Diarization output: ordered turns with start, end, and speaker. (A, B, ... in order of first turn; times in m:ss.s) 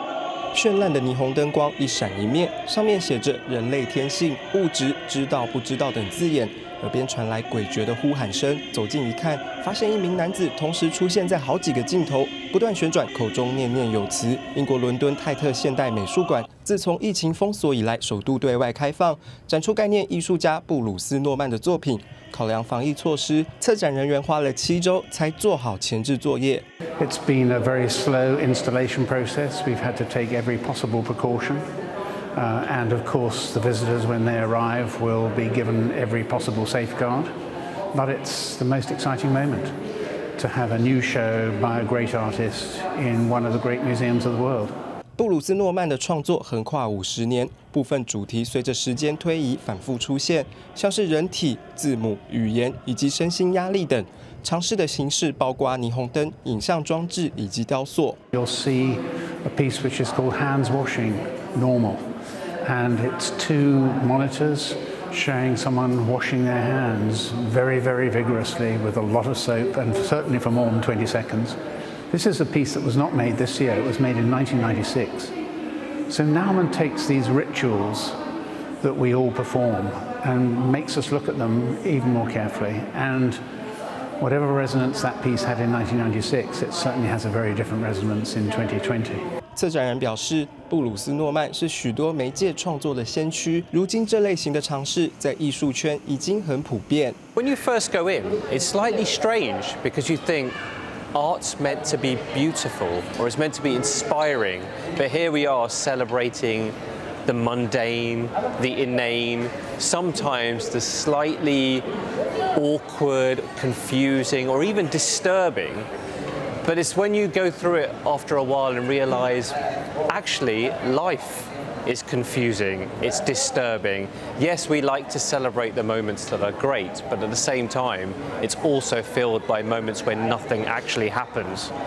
0:00.5-0:26.6 A
0:27.0-0:31.6 B
0:32.3-0:37.3 B
0:37.9-0:39.7 B
0:40.4-0:44.7 B
0:45.2-0:58.2 A
0:58.3-1:02.0 B
1:02.6-1:11.6 B
1:12.1-1:15.3 B
1:16.1-1:18.2 B
1:18.8-1:23.4 B
1:24.2-1:29.2 B
1:29.6-1:37.2 A
1:37.3-1:40.6 C
1:41.1-1:51.8 C
1:52.5-1:55.9 C
1:56.6-2:11.7 C